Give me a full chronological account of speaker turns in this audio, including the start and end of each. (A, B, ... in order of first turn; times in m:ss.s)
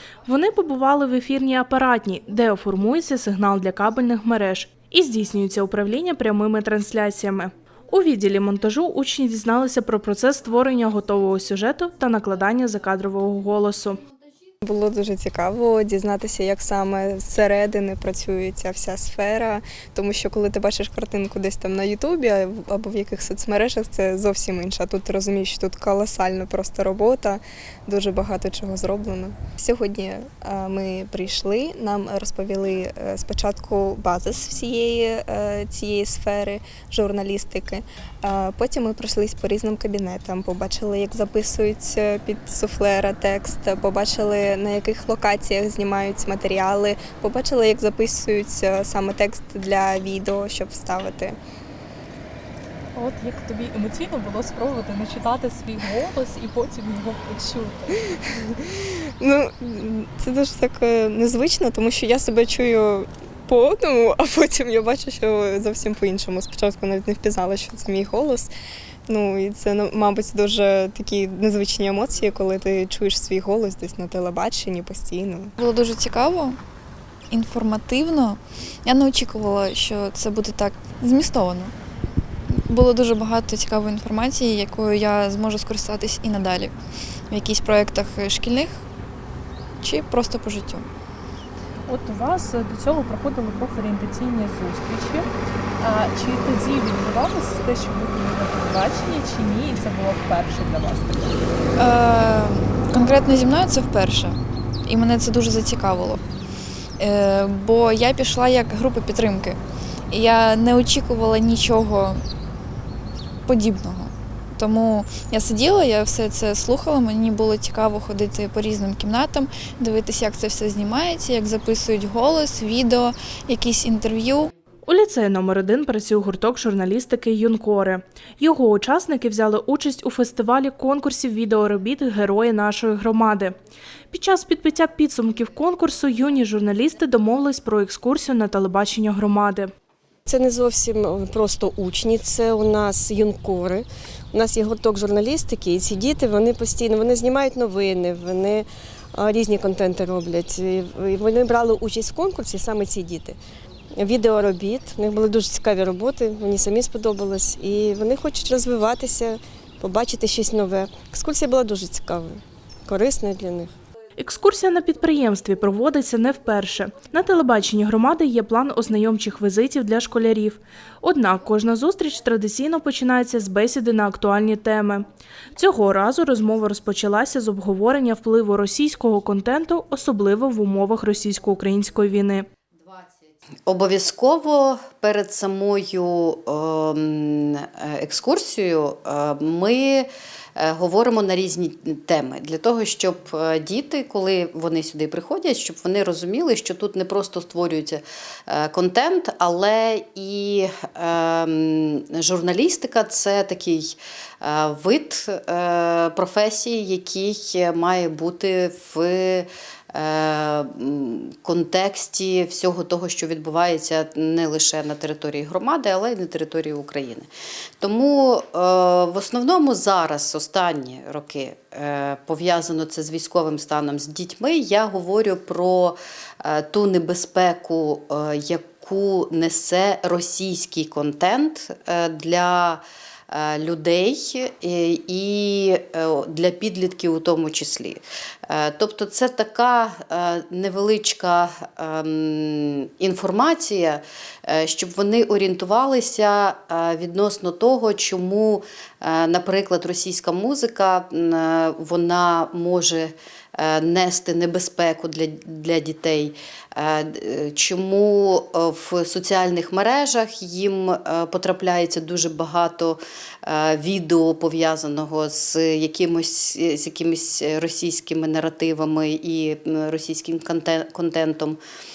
0:00.2-0:14.0 A
0:14.6-0:51.4 B
0:52.9-0:58.0 C
0:59.2-1:08.5 B
1:09.1-1:15.5 B
1:15.6-1:16.6 D
1:17.3-1:21.7 D
1:22.5-1:26.7 D
1:27.3-1:28.8 D
1:29.8-1:30.9 D
1:31.9-1:35.3 C
1:35.8-1:41.3 C
1:41.8-1:46.2 D
1:47.0-1:49.6 D
1:50.1-1:52.2 D
1:53.4-2:04.5 D
2:04.9-2:13.6 A
2:14.1-2:19.7 A
2:20.3-2:33.4 E
2:34.0-2:43.7 E
2:44.2-2:55.0 A
2:55.6-3:02.5 A
3:03.7-3:37.3 F
3:37.8-4:31.6 F